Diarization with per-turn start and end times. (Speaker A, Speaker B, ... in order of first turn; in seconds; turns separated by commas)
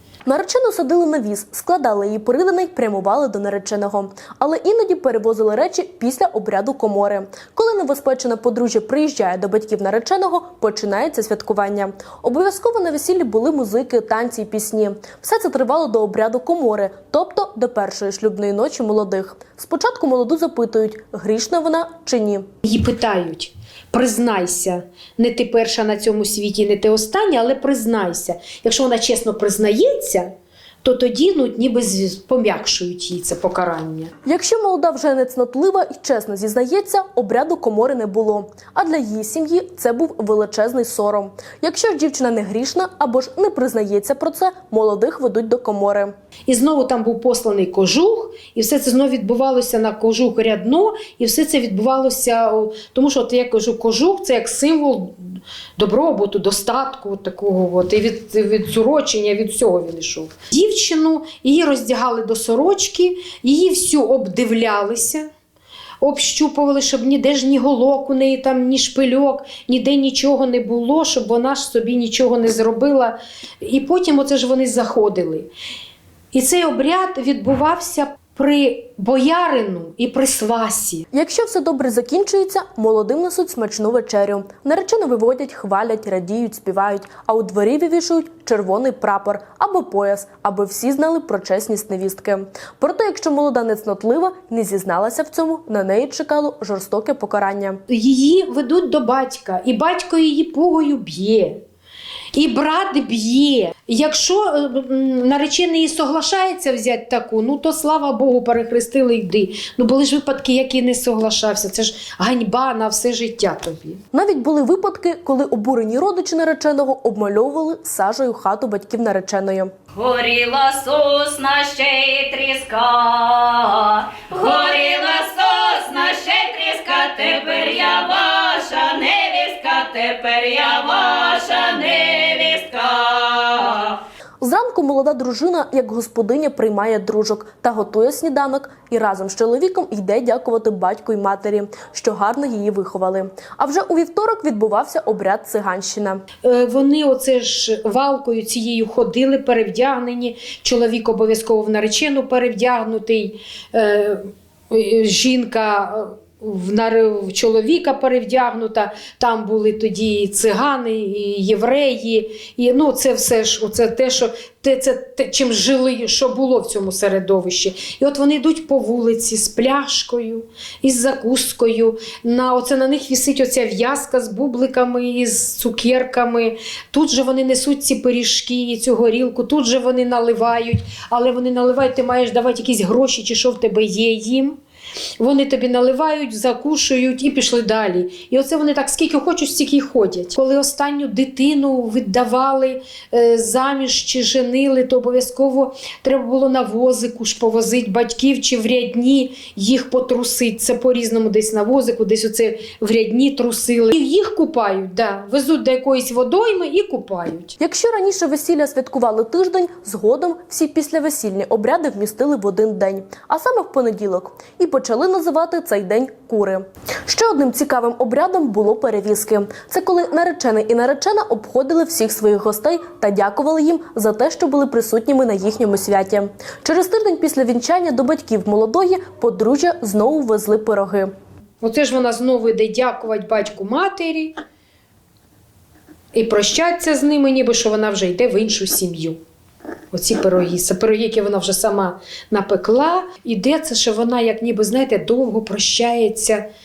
Speaker A: 0.2-22.5, Speaker B: 22.6-30.3, Speaker B: 30.8-34.1, Speaker A: 34.2-46.1, Speaker B: 46.5-55.2, Speaker B: 55.8-65.3, Speaker B: 66.0-75.5, Speaker B: 76.3-81.1, Speaker A: 81.1-97.8, Speaker B: 97.9-101.6, Speaker B: 102.3-114.0, Speaker A: 114.1-119.7, Speaker C: 119.9-134.0, Speaker A: 134.4-146.2, Speaker B: 146.4-184.6, Speaker B: 185.2-207.6, Speaker A: 207.6-231.1, Speaker B: 231.6-234.3, Speaker B: 236.1-239.2, Speaker B: 239.9-246.4